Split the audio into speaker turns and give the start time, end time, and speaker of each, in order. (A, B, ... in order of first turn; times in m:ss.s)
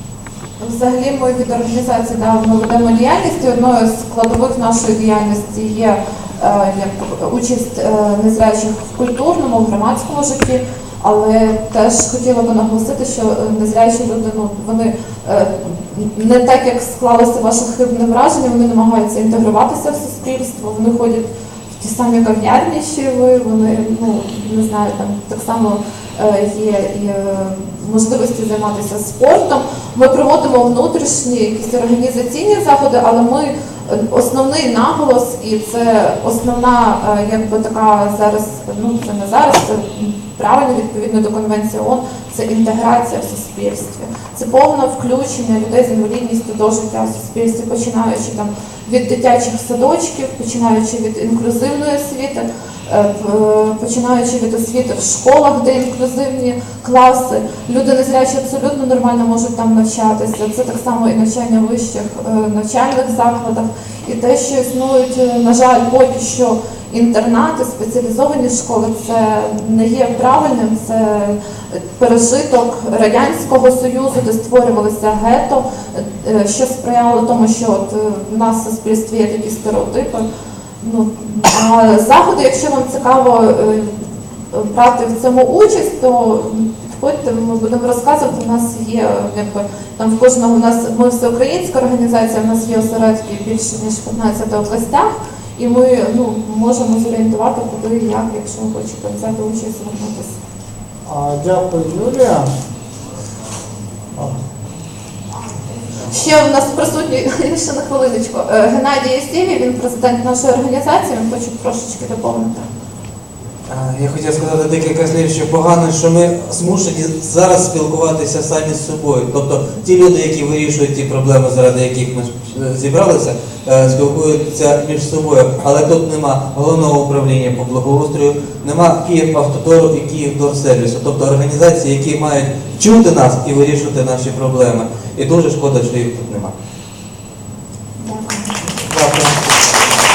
0:00.6-1:11.4 A
1:11.9-1:20.2 A
1:20.8-1:23.9 A
1:24.5-1:40.3 A
1:41.0-1:42.5 B
1:46.0-1:52.7 A
1:53.7-2:16.5 C
2:18.0-2:18.5 A
2:18.8-2:19.4 B